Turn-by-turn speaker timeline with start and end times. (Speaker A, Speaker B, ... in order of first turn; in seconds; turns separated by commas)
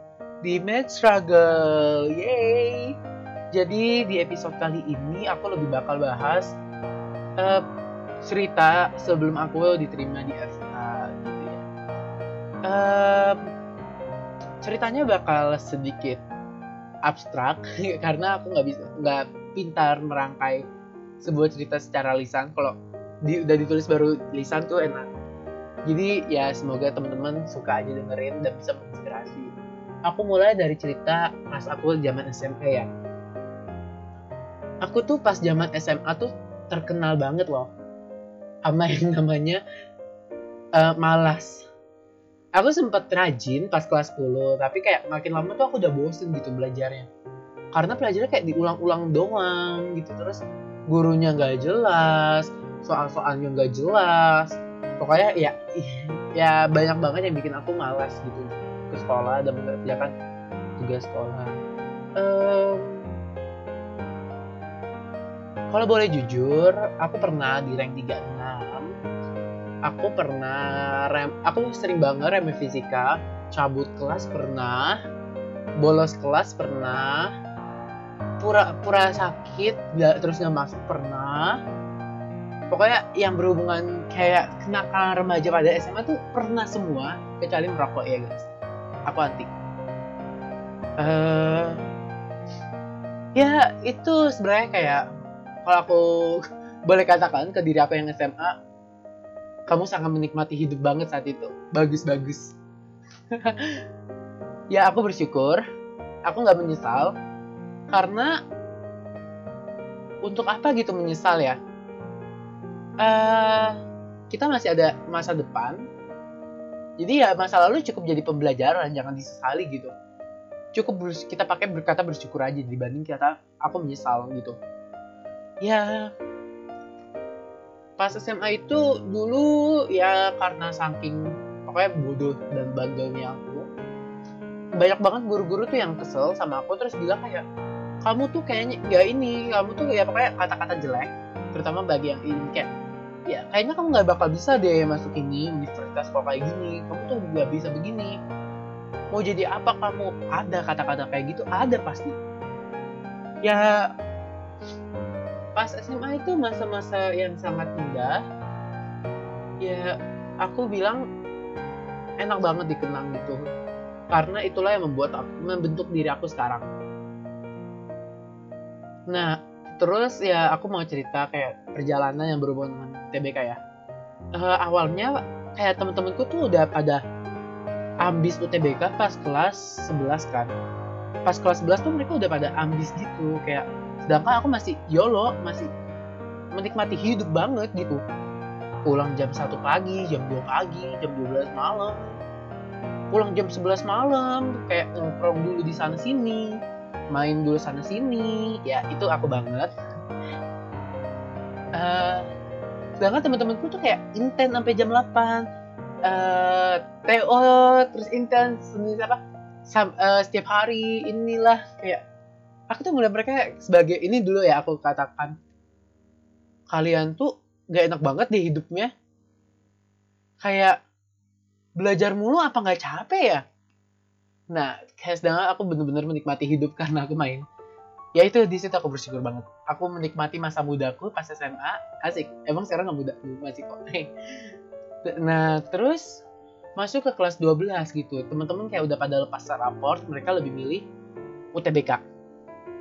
Speaker A: 0.4-2.9, Speaker A: 3.5-6.5, Speaker A: 8.2-11.6, Speaker A: 12.7-13.4, Speaker A: 14.6-16.2, Speaker A: 17.1-20.6, Speaker A: 21.2-22.7, Speaker A: 23.2-25.1, Speaker A: 25.9-29.5, Speaker A: 30.1-32.9, Speaker A: 34.8-37.7, Speaker A: 38.7-39.6, Speaker A: 40.8-41.7, Speaker A: 42.6-47.1, Speaker A: 47.7-60.1, Speaker A: 60.8-61.6, Speaker A: 62.2-63.1, Speaker A: 65.7-68.9, Speaker A: 69.9-75.0, Speaker A: 75.8-77.3, Speaker A: 78.4-81.6, Speaker A: 82.7-88.5, Speaker A: 89.1-89.5, Speaker A: 91.0-91.8, Speaker A: 93.4-95.0, Speaker A: 95.7-98.5, Speaker A: 99.7-102.5, Speaker A: 103.3-103.7, Speaker A: 104.7-105.6, Speaker A: 106.3-107.2, Speaker A: 107.9-108.3, Speaker A: 110.3-111.6, Speaker A: 113.0-113.8, Speaker A: 114.3-115.8, Speaker A: 117.0-119.9, Speaker A: 120.7-124.6, Speaker A: 125.6-126.1, Speaker A: 128.0-133.7, Speaker A: 134.8-137.4, Speaker A: 138.1-142.7, Speaker A: 143.3-148.2, Speaker A: 149.1-152.2, Speaker A: 153.5-153.9, Speaker A: 155.6-158.2, Speaker A: 159.6-161.0, Speaker A: 162.2-163.5, Speaker A: 164.1-166.7, Speaker A: 169.1-173.6, Speaker A: 174.4-177.0, Speaker A: 178.0-180.5, Speaker A: 181.3-185.7, Speaker A: 186.6-188.0, Speaker A: 188.9-192.2, Speaker A: 193.1-196.6, Speaker A: 197.1-199.7, Speaker A: 201.8-202.3, Speaker A: 203.0-205.4, Speaker A: 206.1-212.0, Speaker A: 212.7-215.3, Speaker A: 216.7-218.9, Speaker A: 220.4-220.8, Speaker A: 221.8-223.4, Speaker A: 224.5-227.4, Speaker A: 228.2-234.1, Speaker A: 235.1-236.2, Speaker A: 236.8-240.8, Speaker A: 241.6-242.0